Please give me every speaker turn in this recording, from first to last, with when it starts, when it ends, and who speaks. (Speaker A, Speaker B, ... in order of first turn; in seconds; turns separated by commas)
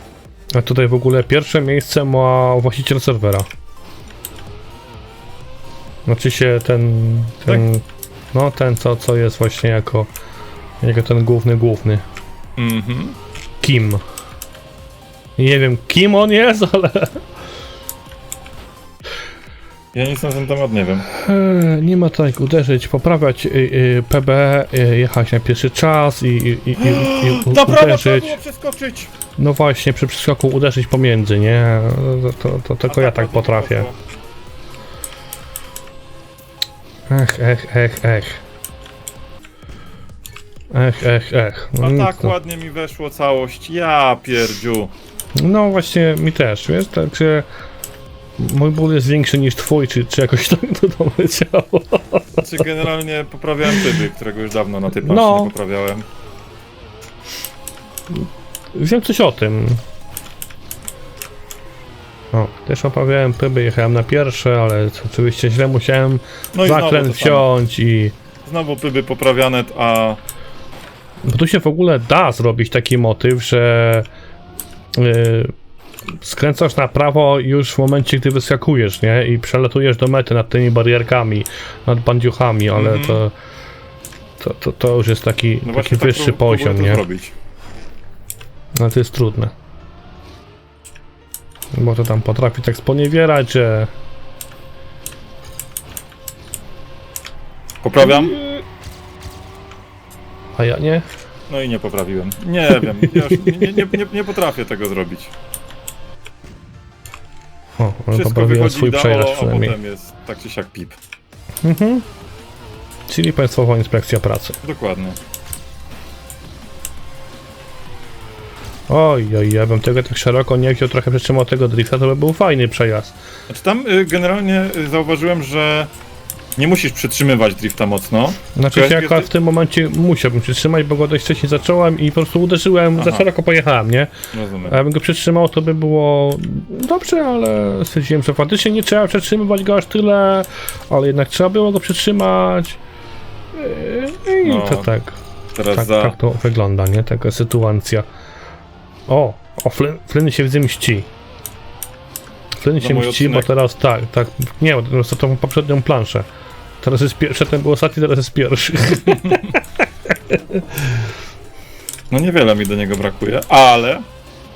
Speaker A: 0.6-3.5, Speaker A: 6.1-10.1, Speaker A: 10.8-12.0, Speaker B: 12.6-13.2, Speaker A: 13.6-14.0, Speaker A: 15.4-17.2, Speaker B: 19.9-21.1, Speaker A: 21.1-28.4, Speaker B: 26.8-29.1, Speaker A: 29.4-33.9, Speaker B: 32.9-34.0, Speaker A: 37.1-38.4, Speaker A: 40.7-42.3, Speaker B: 41.8-44.9, Speaker A: 45.4-47.5, Speaker A: 48.4-52.4, Speaker B: 52.4-56.0, Speaker A: 55.0-55.5, Speaker A: 58.8-59.8, Speaker A: 62.3-68.1, Speaker B: 66.5-67.5, Speaker B: 68.5-70.2, Speaker A: 71.2-74.1, Speaker A: 75.0-75.5, Speaker A: 76.2-83.3, Speaker B: 82.7-83.2, Speaker A: 84.4-87.0, Speaker B: 85.6-87.3, Speaker A: 88.8-89.5, Speaker A: 91.7-93.9, Speaker B: 97.8-98.5, Speaker A: 100.6-101.1, Speaker B: 101.5-105.3, Speaker A: 102.9-103.3, Speaker A: 107.8-109.8, Speaker B: 108.2-111.0, Speaker A: 111.6-112.0, Speaker A: 113.1-114.6, Speaker B: 114.6-115.2, Speaker A: 118.9-123.1, Speaker B: 123.5-125.9, Speaker B: 126.6-129.3, Speaker A: 128.6-134.1, Speaker B: 133.0-133.3, Speaker B: 134.3-134.8, Speaker A: 134.7-142.8, Speaker A: 143.5-145.2, Speaker B: 144.4-144.9, Speaker B: 145.6-146.2, Speaker A: 145.7-148.1, Speaker A: 149.1-151.1, Speaker A: 152.6-156.3, Speaker B: 152.8-153.5, Speaker A: 156.8-159.6, Speaker A: 160.3-161.0, Speaker B: 162.1-164.0